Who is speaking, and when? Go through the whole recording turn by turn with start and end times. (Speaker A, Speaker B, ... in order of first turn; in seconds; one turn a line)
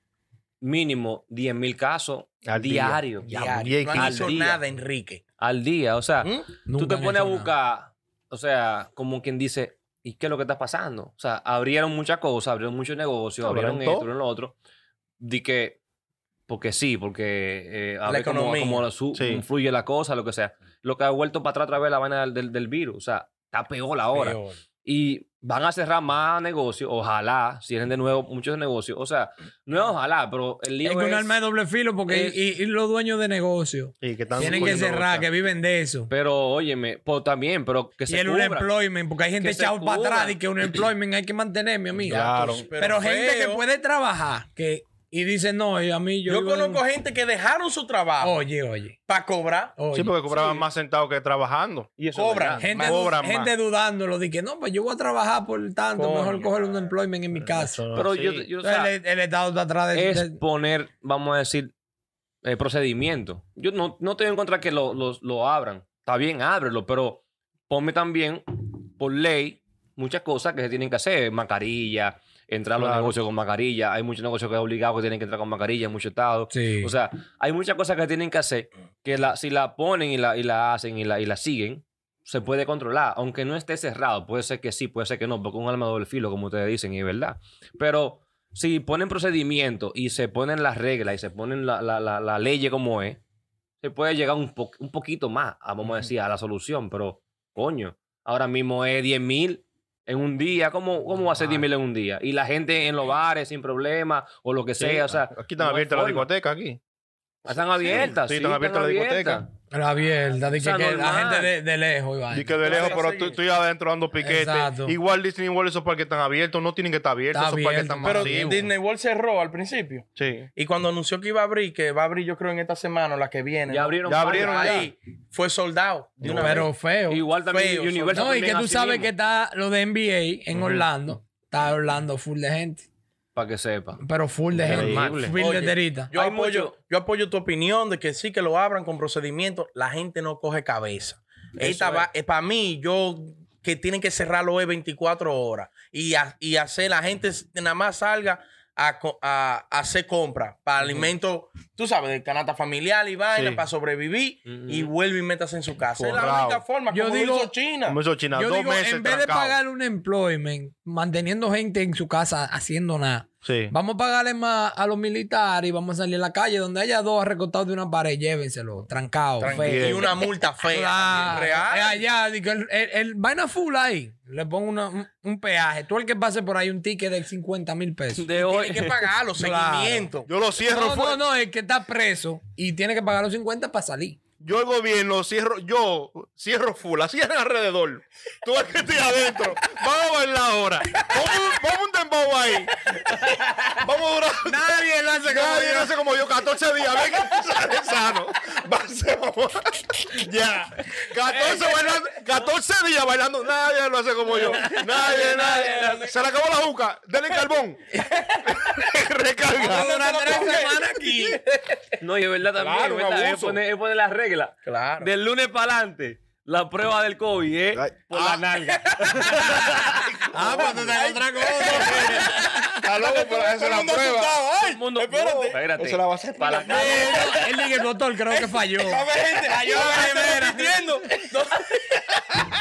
Speaker A: 0.6-3.3
Speaker B: 2.5-4.3
Speaker C: 3.3-5.2
Speaker A: 3.9-4.6
Speaker A: 5.4-14.6
Speaker C: 6.2-6.5
Speaker D: 6.7-7.5
Speaker B: 13.4-14.1
Speaker A: 15.2-15.8
Speaker A: 16.5-31.4
Speaker C: 18.1-18.9
Speaker B: 19.1-19.4
Speaker C: 24.1-24.6
Speaker D: 30.8-36.1
Speaker A: 32.1-32.4
Speaker B: 34.0-35.3
Speaker A: 34.4-34.8
Speaker A: 36.1-38.7
Speaker D: 38.1-46.8
Speaker A: 39.4-40.7
Speaker B: 42.0-42.7
Speaker C: 42.1-43.6
Speaker C: 46.3-48.4
Speaker D: 48.2-49.0
Speaker C: 49.1-49.8
Speaker D: 49.8-50.2
Speaker B: 49.9-51.9
Speaker A: 50.3-50.6
Speaker A: 52.0-52.7
Speaker C: 52.1-53.1
Speaker D: 52.6-57.8
Speaker B: 52.8-53.5
Speaker C: 56.0-56.8
Speaker B: 57.4-58.5
Speaker A: 58.0-58.9
Speaker D: 58.6-60.4
Speaker A: 59.9-61.7
Speaker A: 62.4-93.2
Speaker B: 72.8-73.2
Speaker D: 76.5-76.9
Speaker A: 93.8-106.3
Speaker B: 104.8-106.8
Speaker A: 107.5-109.5
Speaker B: 107.8-109.4
Speaker D: 109.7-112.8
Speaker A: 110.5-111.5
Speaker B: 112.3-118.7
Speaker C: 112.6-113.4
Speaker D: 114.2-115.0
Speaker D: 117.3-118.5
Speaker C: 118.0-126.7
Speaker B: 120.2-120.5
Speaker A: 123.7-124.9
Speaker B: 124.0-124.9
Speaker B: 126.2-126.7
Speaker D: 126.4-127.2
Speaker A: 127.1-129.1
Speaker C: 127.5-128.3
Speaker D: 128.1-132.9
Speaker A: 133.3-134.0
Speaker D: 134.0-136.1
Speaker B: 134.5-135.1
Speaker A: 134.6-135.4
Speaker C: 135.3-158.0
Speaker A: 136.1-136.8
Speaker A: 141.6-142.1
Speaker A: 150.8-151.1
Speaker B: 153.3-153.6
Speaker A: 154.5-154.9
Speaker B: 156.0-156.6
Speaker D: 156.9-157.5
Speaker B: 157.9-159.6
Speaker D: 158.3-178.3
Speaker B: 163.4-163.7
Speaker C: 169.4-172.0
Speaker B: 169.6-170.2
Speaker A: 178.2-179.1
Speaker C: 178.4-180.3
Speaker D: 179.4-180.1
Speaker B: 180.3-181.2
Speaker D: 180.6-184.2
Speaker B: 184.4-192.8
Speaker B: 193.8-207.9
Speaker D: 194.4-195.9
Speaker D: 201.2-202.1
Speaker C: 204.3-206.1
Speaker A: 204.3-206.1
Speaker B: 208.4-209.9
Speaker D: 209.6-211.4
Speaker C: 209.6-211.9
Speaker A: 212.0-220.1
Speaker B: 212.6-213.6
Speaker C: 214.7-215.1
Speaker B: 217.7-218.5
Speaker B: 220.0-220.9
Speaker D: 220.3-222.7
Speaker C: 220.4-225.6
Speaker B: 222.8-224.4
Speaker A: 224.6-227.3
Speaker B: 225.2-227.4
Speaker D: 226.6-230.8
Speaker C: 228.3-232.5